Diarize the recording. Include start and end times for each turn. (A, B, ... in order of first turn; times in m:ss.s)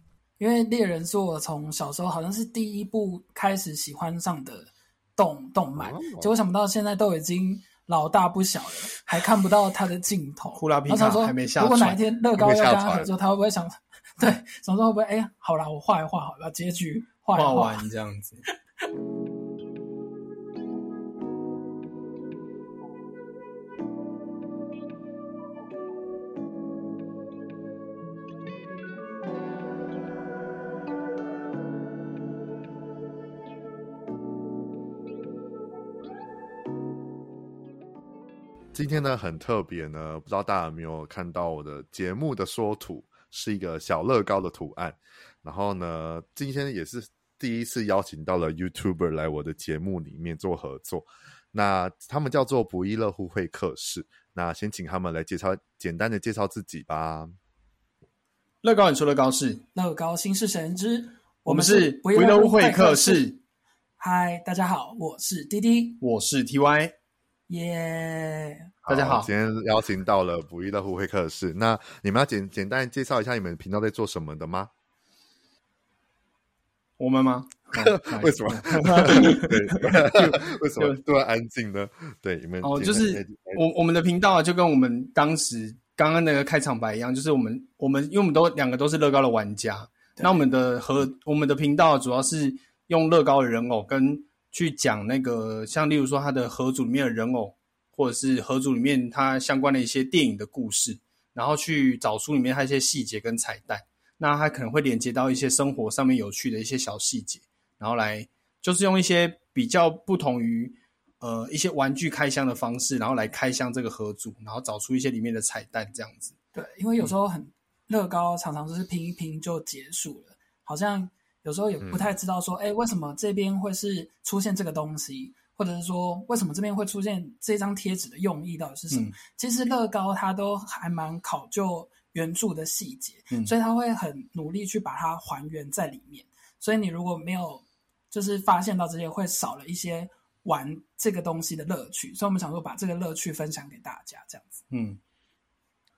0:00.4-0:17.8 A
0:05.8-0:06.3 B
0:10.6-0:12.0 C
0:12.4-0:13.1 B
0:17.4-0:18.4 C
0:38.7-0:57.3 B
0:58.6-0:59.6 C
0:59.8-1:03.3 A
1:01.5-1:03.4 C
1:04.0-1:06.0 A
1:06.0-1:06.9 C
1:07.5-1:08.7 A
1:08.9-1:14.7 B
1:08.9-1:09.3 C
1:17.0-1:21.0 C
1:17.8-1:23.6 B
1:22.6-1:56.4 C
1:30.2-1:30.4 A
1:56.5-2:24.6 A
2:01.8-2:02.1 B
2:08.9-2:09.2 C
2:24.7-2:25.0 C